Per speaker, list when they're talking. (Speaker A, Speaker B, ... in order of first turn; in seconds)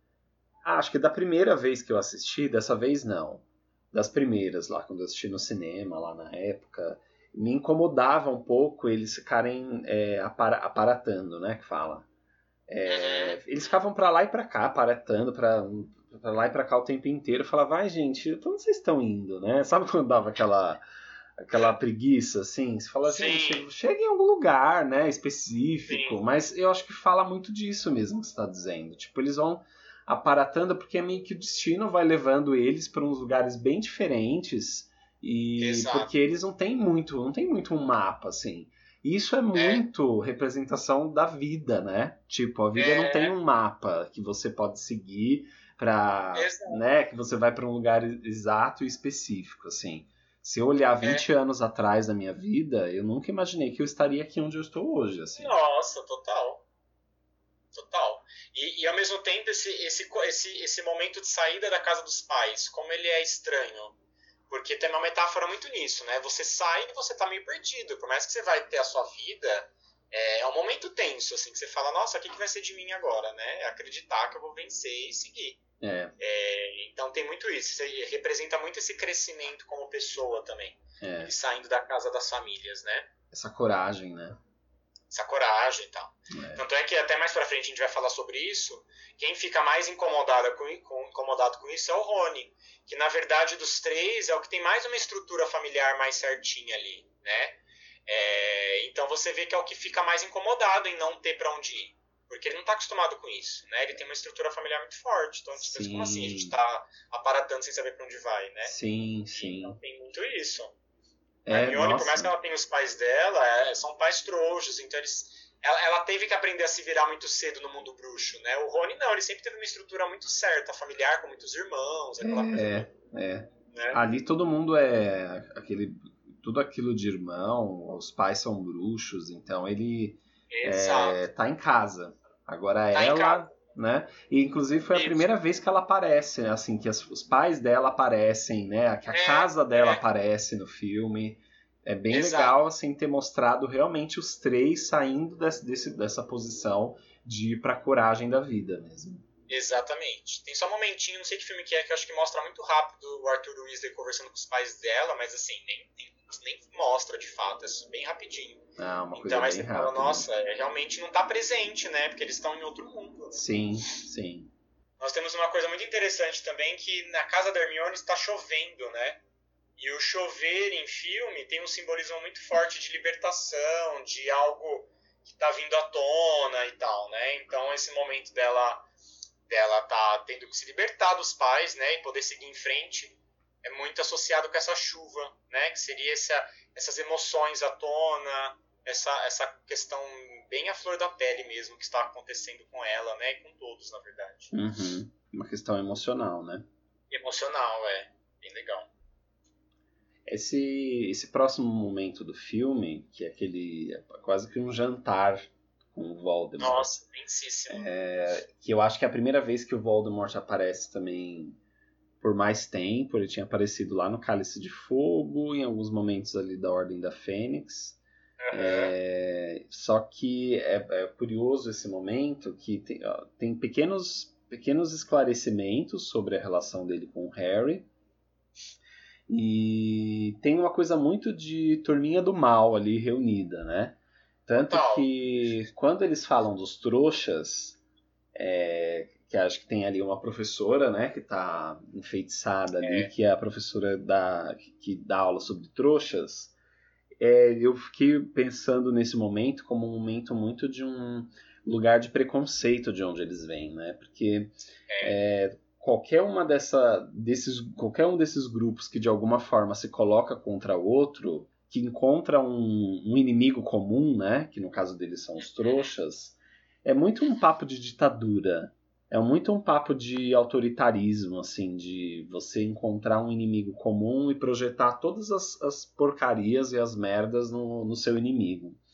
Speaker A: 0.6-12.1, 12.7-20.8, 21.4-55.5, 75.8-76.1, 81.0-81.3, 83.3-84.4, 86.3-86.6, 105.6-106.5, 108.6-109.8, 111.5-112.3, 122.2-149.2, 158.8-160.3, 163.3-164.5, 194.5-196.7, 200.3-207.0, 207.7-211.6, 212.2-218.0, 218.5-227.9, 229.3-237.8, 238.3-246.5, 247.2-278.8
Speaker B: 12.9-13.4, 23.1-23.7, 25.9-26.2, 35.6-36.1, 39.5-39.8, 42.8-43.4, 46.4-46.8, 55.4-56.6, 57.7-64.0, 64.5-75.6, 76.2-83.1, 85.1-108.8, 109.3-110.8, 111.5-122.9, 123.7-124.0, 130.5-131.2, 132.9-133.5, 134.9-135.3, 139.1-140.0, 142.1-142.6, 149.5-163.4, 165.0-169.2, 169.8-178.9, 179.5-194.5, 197.1-198.9, 206.6-207.9, 218.4-218.9, 234.6-235.1, 242.8-243.1, 254.9-255.2, 265.6-265.9